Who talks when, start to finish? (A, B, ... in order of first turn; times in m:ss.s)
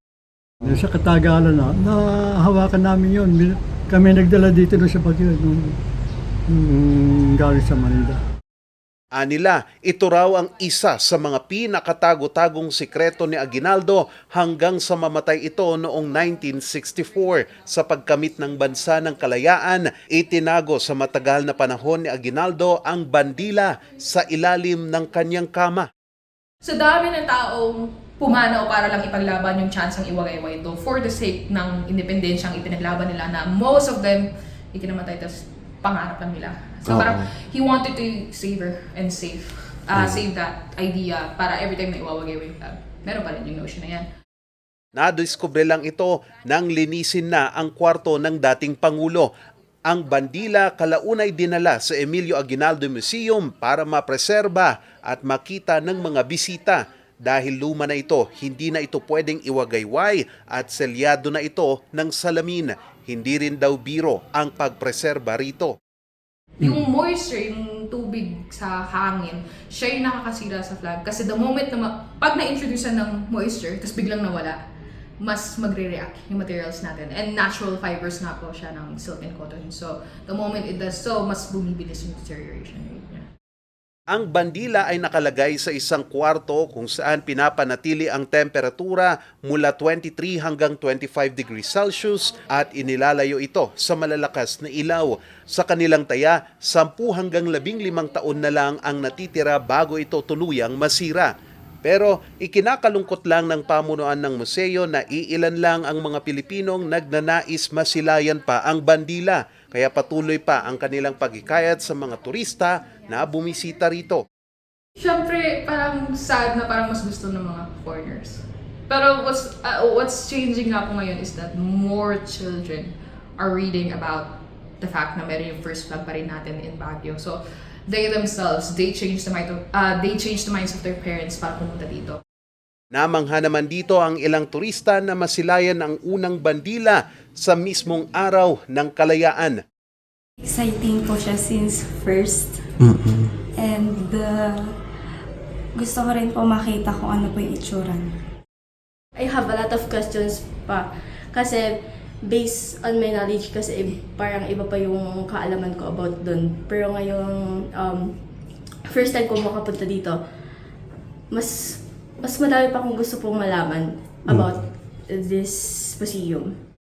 0:00.6-0:05.8 A
0:06.5-0:08.2 A
0:09.1-0:25.9 B
0:26.6-0:44.0 C
0:45.0-0:49.3 B
0:49.9-1:05.7 B
1:06.6-1:14.6 C
1:15.2-1:23.2 C
1:24.1-1:41.3 B
1:41.8-1:54.2 B
1:55.0-2:12.2 C
2:12.9-2:19.6 B
2:20.4-2:24.7 D
2:25.7-2:28.1 D
2:29.2-2:31.7 E
2:32.2-2:38.1 E
2:38.9-2:40.2 E
2:41.3-2:46.5 E